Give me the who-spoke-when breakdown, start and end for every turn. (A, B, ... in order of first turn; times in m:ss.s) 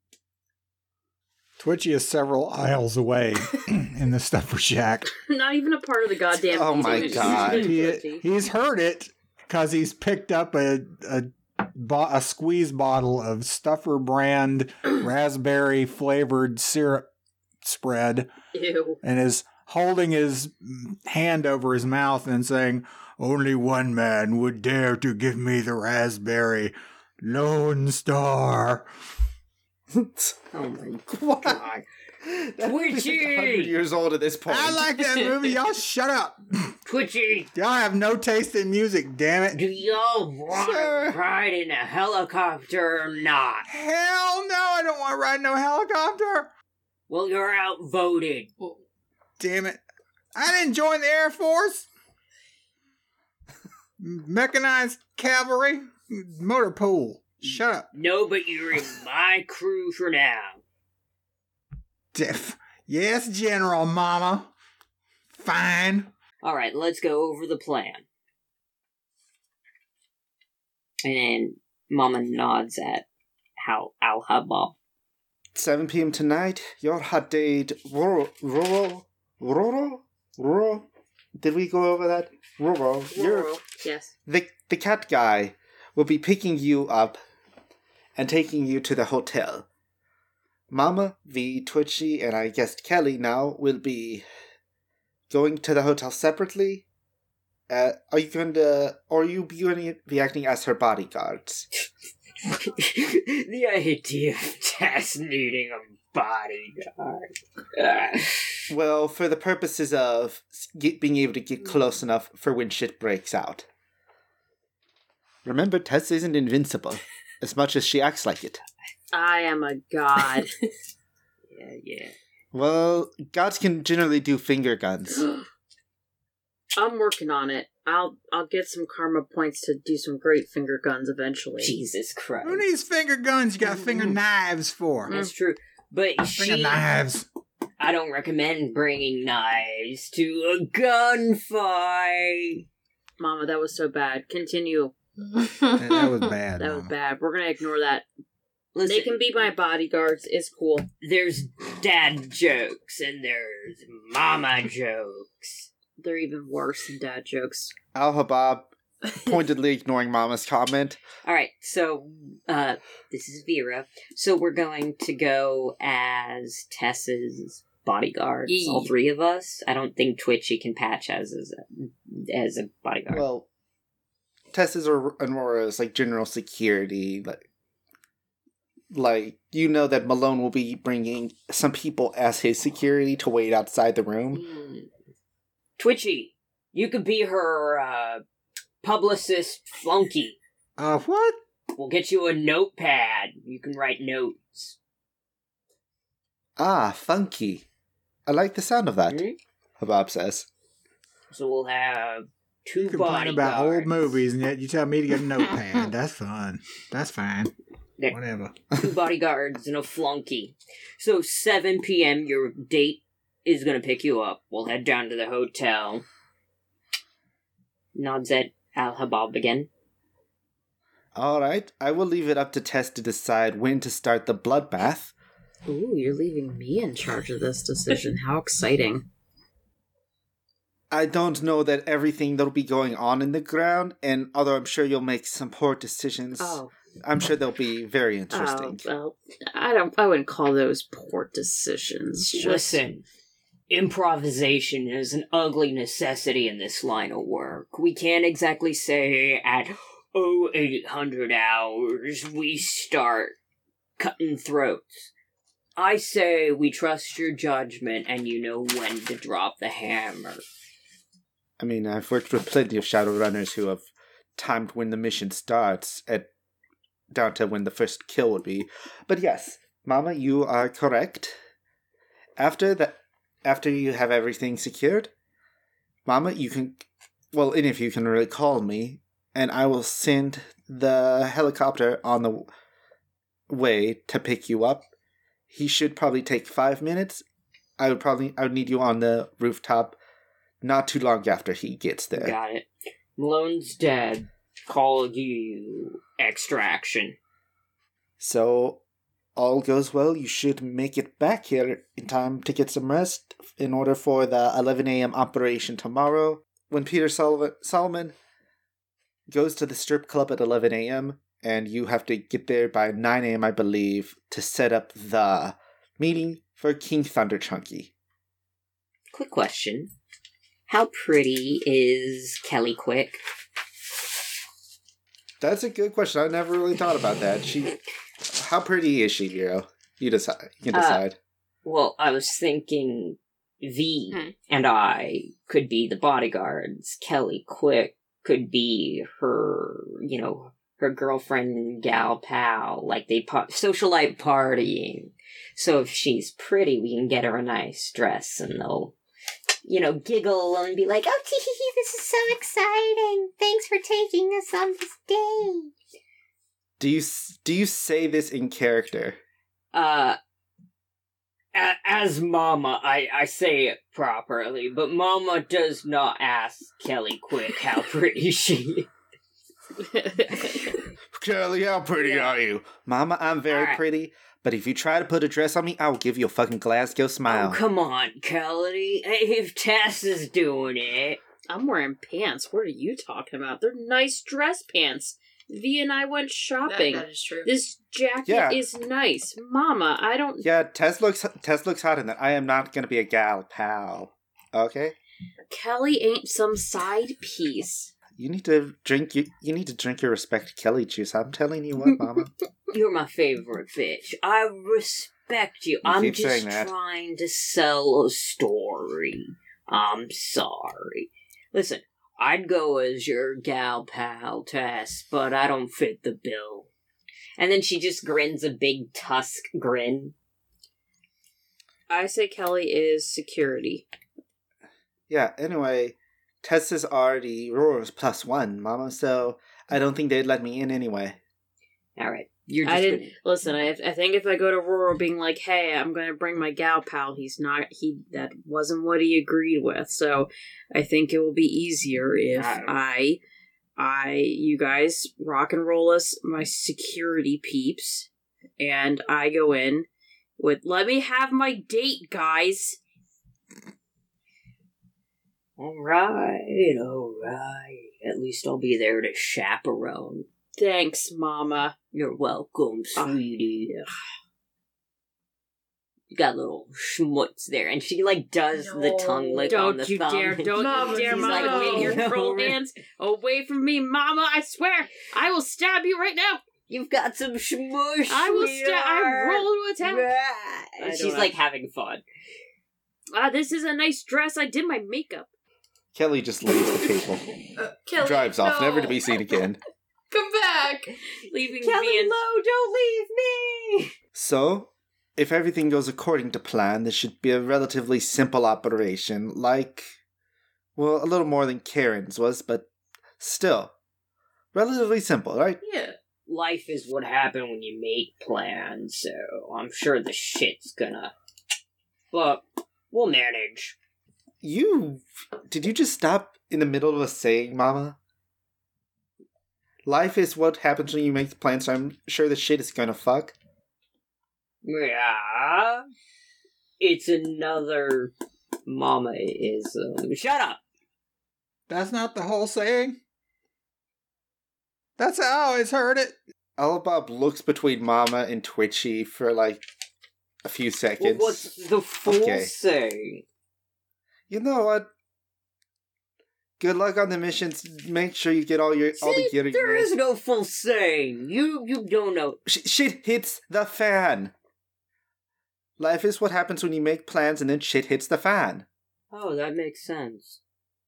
0:01.6-0:05.1 A
0:05.1-0:08.2 B
0:06.5-0:07.7 C
0:07.2-0:17.1 A
0:17.6-0:18.3 A
0:18.5-0:19.0 B
0:19.0-0:28.9 A
0:29.9-0:30.4 C
0:30.5-0:31.8 D
0:31.1-0:31.6 C
0:32.2-0:34.8 C
0:32.6-0:33.7 D
0:34.5-0:36.7 A
0:36.9-0:37.5 D
0:37.6-0:39.6 A
0:39.5-0:43.7 D
0:40.5-0:41.2 C
0:43.7-0:46.5 A
0:47.1-0:48.5 D
0:49.4-0:49.8 A
0:50.4-0:51.9 A
0:54.0-0:57.9 A
0:57.4-1:00.6 D
1:02.1-1:04.5 A
1:05.3-1:06.1 A
1:06.4-1:08.0 D
1:11.0-1:13.1 D
1:13.6-1:14.8 D
1:15.6-1:23.5 C
1:23.1-1:24.1 B
1:24.3-1:27.2 C
1:28.2-1:29.7 C
1:30.7-1:34.3 C
1:35.3-1:36.8 C
1:37.7-1:41.7 C
1:42.5-1:48.6 D
1:48.7-1:53.7 C
1:55.4-1:58.6 C
1:59.1-2:00.5 B
2:01.5-2:02.2 D
2:02.5-2:05.3 C
2:06.8-2:11.8 B
2:11.6-2:12.6 D
2:12.4-2:15.1 A
2:15.1-2:15.3 B
2:15.1-2:16.8 D
2:16.4-2:17.3 A
2:17.8-2:22.6 D
2:23.2-2:24.9 B
2:25.4-2:26.1 E
2:25.8-2:26.9 A
2:26.6-2:28.1 B
2:28.8-2:29.2 D
2:28.8-2:30.9 B
2:31.0-2:35.7 D
2:36.0-2:37.7 B
2:37.9-2:41.0 C
2:41.2-2:53.3 D
2:48.5-2:48.9 E
2:53.1-2:53.5 C
2:54.5-2:57.4 C
2:58.9-3:04.4 C
3:04.3-3:04.9 D
3:05.8-3:08.2 D
3:08.8-3:10.4 D
3:10.8-3:11.4 A
3:11.7-3:14.8 D
3:16.6-3:17.6 C
3:18.3-3:19.2 C
3:19.1-3:19.4 D
3:19.8-3:20.5 C
3:21.3-3:24.2 D
3:22.8-3:27.5 A
3:28.1-3:28.6 A
3:28.7-3:36.0 D
3:38.0-3:39.7 D
3:41.2-3:45.1 C
3:45.7-3:49.1 B
3:50.9-3:58.9 C
3:56.4-3:56.7 B
3:58.3-4:02.8 B
4:02.3-4:03.0 D
4:03.7-4:13.4 D
4:14.0-4:15.1 D
4:15.8-4:20.4 D
4:21.6-4:23.8 C
4:24.4-4:26.3 C
4:27.1-4:31.4 C
4:32.4-4:35.1 C
4:36.1-4:42.5 C
4:43.5-4:44.8 C
4:45.5-4:47.2 C
4:47.8-4:50.0 C
4:50.6-4:52.4 C
4:52.2-4:57.2 D
4:58.2-4:58.8 C
4:59.4-5:08.2 C
5:09.3-5:17.9 C
5:19.1-5:19.9 D
5:20.7-5:23.2 D
5:25.4-5:27.8 C
5:28.3-5:31.2 C
5:30.7-5:31.0 D
5:31.6-5:48.9 D
5:49.6-5:55.7 D
5:56.8-5:59.2 C
5:59.7-6:00.2 D
6:01.5-6:08.9 D
6:09.9-6:10.6 B
6:11.1-6:17.6 C
6:12.0-6:12.4 D
6:13.5-6:13.8 D
6:17.3-6:21.2 D
6:21.5-6:30.5 B
6:26.6-6:27.5 E
6:28.2-6:28.6 C
6:30.4-6:35.0 C
6:35.5-6:37.9 B
6:38.2-6:42.3 C
6:42.7-6:56.7 D
6:45.8-6:46.7 C
6:57.4-7:00.1 D
7:01.9-7:03.8 B
7:05.1-7:11.2 C
7:12.0-7:13.1 D
7:12.6-7:23.2 B
7:22.4-7:22.7 D
7:23.8-7:29.9 B
7:30.4-7:32.8 B
7:35.6-7:40.3 D
7:40.6-7:41.7 B
7:41.9-7:43.7 D
7:43.0-7:43.9 B
7:46.1-7:52.6 D
7:48.5-7:49.6 E
7:49.5-7:56.4 B
7:50.5-7:52.0 E
7:56.7-8:02.0 D
7:58.1-8:00.1 B
8:00.8-8:01.3 B
8:03.1-8:05.3 B
8:05.9-8:07.2 C
8:07.6-8:09.4 E
8:08.0-8:09.6 C
8:10.1-8:11.0 E
8:11.3-8:12.2 B
8:11.6-8:13.9 D
8:14.1-8:19.9 C
8:20.8-8:23.7 C
8:24.5-8:25.6 C
8:25.6-8:26.0 E
8:26.3-8:31.1 D
8:32.1-8:33.8 D
8:34.4-8:38.0 C
8:39.9-8:43.4 C
8:44.6-8:45.9 D
8:46.8-8:48.1 D
8:48.7-8:50.6 D
8:51.7-8:53.0 A
8:55.0-8:56.2 A
8:56.6-8:59.6 C
9:00.4-9:02.5 C
9:01.0-9:03.2 D
9:04.3-9:04.9 C
9:06.6-9:09.9 C
9:09.0-9:12.4 D
9:12.5-9:14.3 C
9:15.8-9:18.7 C
9:19.1-9:20.4 D